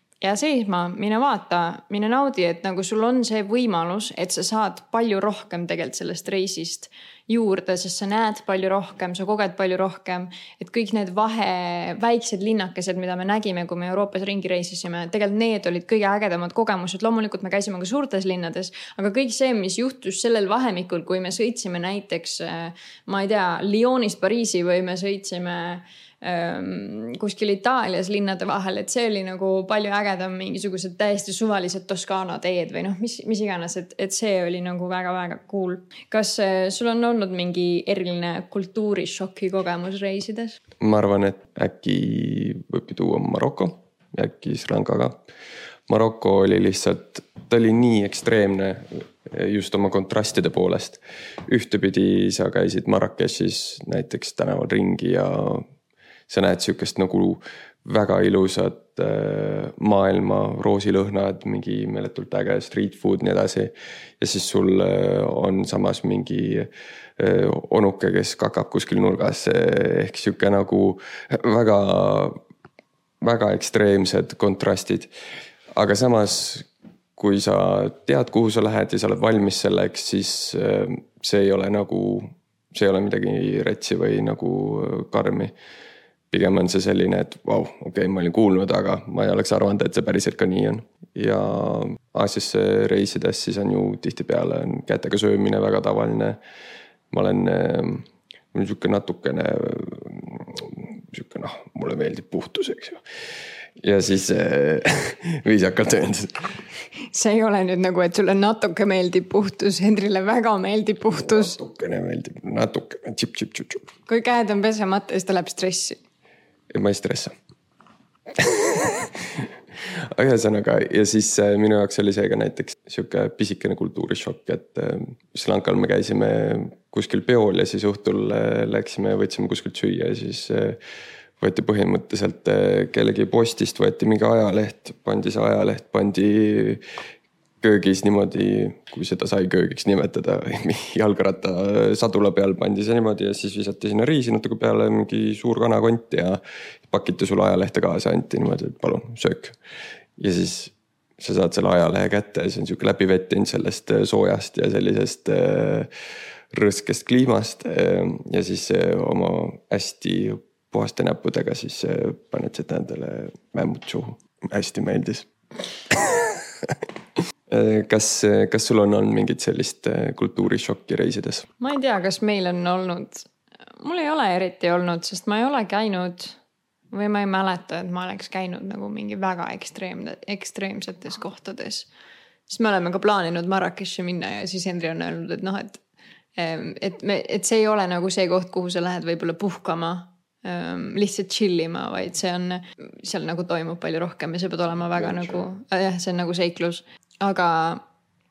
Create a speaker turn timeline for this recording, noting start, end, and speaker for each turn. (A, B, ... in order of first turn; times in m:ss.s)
0:00.2-0:40.6 A
0:40.8-0:45.2 B
0:45.9-0:55.7 B
0:56.3-1:12.4 B
1:13.2-1:15.1 B
1:15.7-1:25.5 B
1:26.3-1:36.4 B
1:37.1-1:43.0 B
1:43.8-1:46.4 B
1:47.1-1:51.6 A
1:51.1-1:53.9 B
1:54.1-1:56.0 A
1:56.7-1:57.3 B
1:58.4-2:10.8 B
2:11.4-2:16.8 B
2:17.6-2:29.6 B
2:30.2-2:35.9 B
2:36.5-2:46.9 B
2:47.5-2:51.5 B
2:51.6-2:56.4 A
2:56.9-3:01.9 A
3:02.5-3:05.8 A
3:06.4-3:17.8 A
3:15.0-3:15.4 B